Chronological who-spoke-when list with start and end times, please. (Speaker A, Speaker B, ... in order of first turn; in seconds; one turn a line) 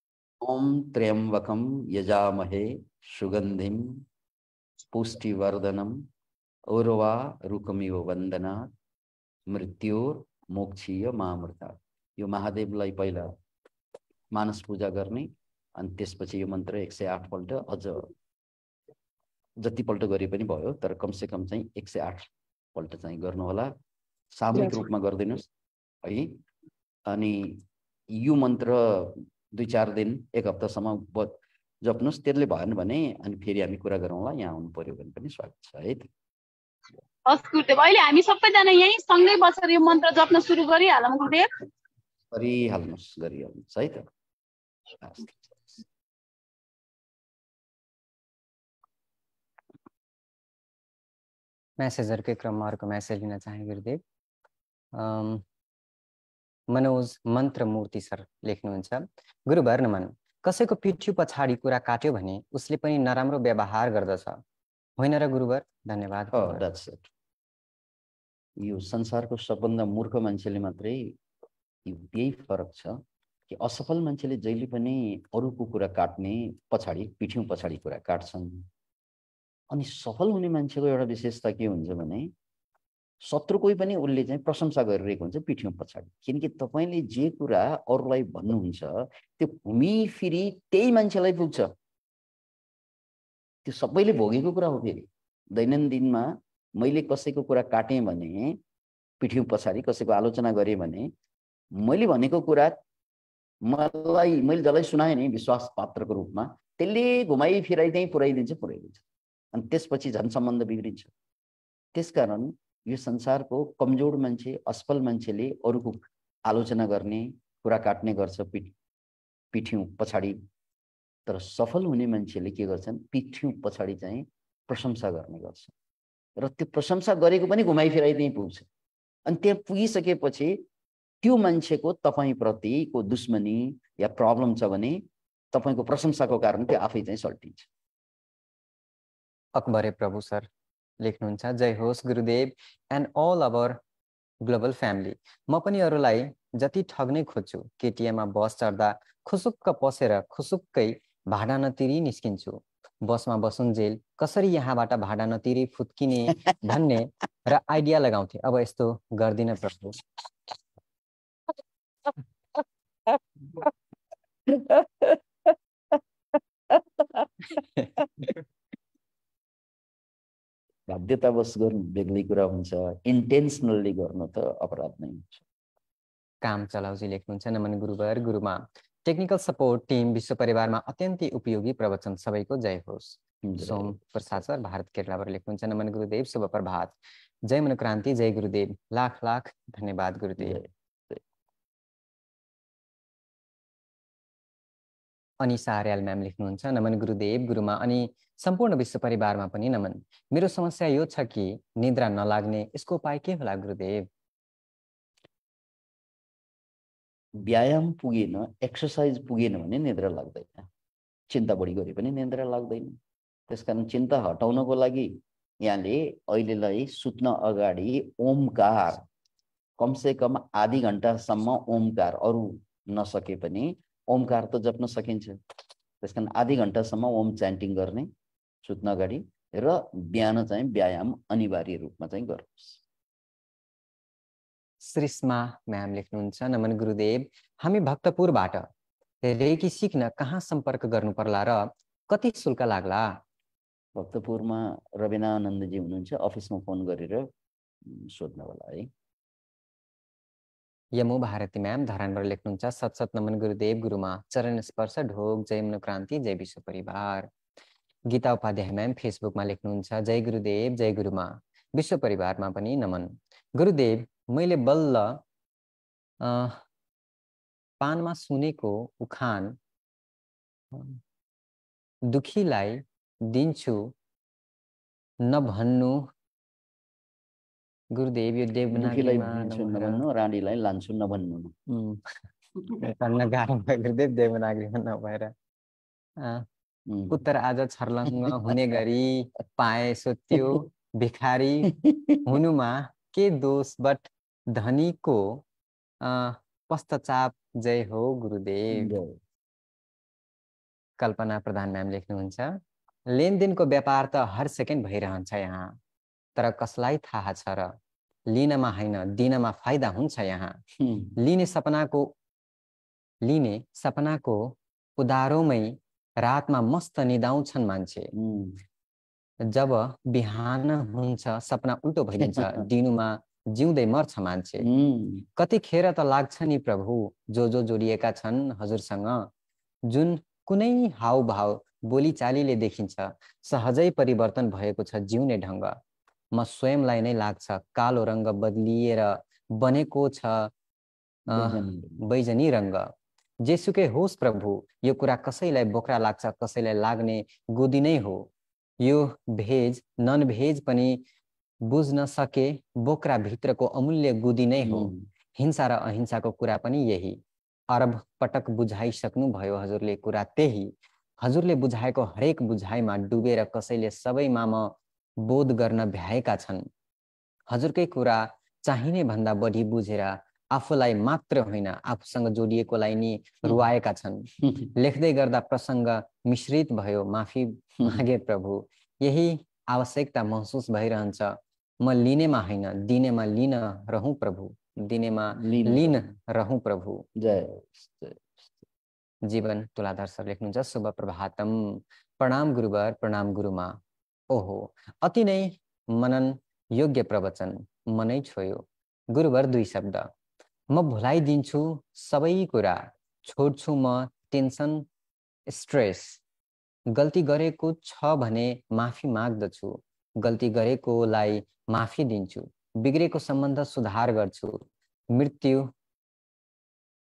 Speaker A: 0.4-4.0
Speaker A: 4.9-6.0
Speaker A: 6.7-8.7
Speaker A: 9.5-13.3
Speaker A: 14.3-18.1
Speaker A: 19.6-23.7
Speaker A: 24.3-25.5
Speaker A: 26.0-26.4
Speaker A: 27.1-36.1
Speaker B: 37.3-41.5
Speaker A: 42.3-44.1
Speaker A: 45.0-45.5
Speaker C: 51.8-54.0
Speaker C: 54.9-55.4
Speaker C: 56.7-64.4
Speaker C: 65.0-66.6
Speaker A: 66.3-67.1
Speaker A: 68.6-71.2
Speaker A: 71.9-78.7
Speaker A: 79.7-82.3
Speaker A: 83.2-91.7
Speaker A: 93.7-98.6
Speaker A: 99.2-101.1
Speaker A: 101.8-102.8
Speaker A: 103.7-111.1
Speaker A: 112.0-118.8
Speaker A: 119.5-120.4
Speaker A: 121.3-125.7
Speaker A: 126.4-128.7
Speaker A: 129.3-130.6
Speaker A: 131.2-137.7
Speaker C: 139.6-140.5
Speaker C: 141.0-143.8
Speaker C: 144.4-159.9
Speaker A: 164.5-165.5
Speaker A: 166.7-167.3
Speaker A: 170.9-175.4
Speaker C: 176.4-190.6
Speaker A: 183.4-184.1
Speaker A: 190.4-191.2
Speaker C: 195.4-204.1
Speaker A: 207.4-210.7
Speaker A: 211.3-219.1
Speaker A: 219.8-225.4
Speaker A: 226.0-228.1
Speaker A: 228.6-232.8
Speaker C: 234.8-238.7
Speaker C: 239.2-243.2
Speaker A: 244.0-247.3
Speaker A: 247.8-248.9
Speaker C: 250.9-257.3
Speaker C: 258.1-265.2
Speaker C: 266.2-266.6
Speaker C: 267.8-269.6
Speaker C: 270.7-271.0
Speaker C: 272.1-273.9
Speaker C: 275.2-276.1
Speaker C: 277.9-280.0
Speaker A: 278.7-281.6
Speaker C: 281.7-282.1
Speaker C: 282.8-285.3
Speaker C: 286.2-286.5
Speaker A: 286.9-287.2
Speaker C: 287.1-291.7
Speaker A: 288.1-288.6
Speaker A: 290.4-290.6
Speaker A: 291.8-292.2
Speaker C: 292.3-295.4
Speaker C: 296.0-299.0
Speaker A: 298.7-299.2
Speaker C: 301.0-305.8
Speaker C: 306.4-307.8
Speaker C: 308.3-310.6
Speaker A: 310.8-311.2
Speaker C: 311.2-312.1
Speaker C: 313.2-318.1
Speaker A: 318.1-318.6
Speaker C: 319.4-324.7
Speaker A: 322.2-322.7
Speaker A: 324.6-325.3
Speaker C: 325.4-329.3
Speaker C: 329.9-335.8
Speaker C: 336.3-340.5
Speaker A: 341.3-342.0
Speaker C: 341.3-348.3
Speaker C: 348.8-351.0
Speaker C: 351.7-366.7
Speaker A: 354.6-355.1
Speaker C: 367.5-387.1
Speaker A: 374.4-374.7
Speaker A: 385.3-386.1
Speaker A: 387.2-388.6
Speaker C: 389.2-393.8
Speaker C: 394.3-400.1
Speaker C: 400.7-404.9
Speaker C: 405.5-406.2
Speaker C: 406.9-415.7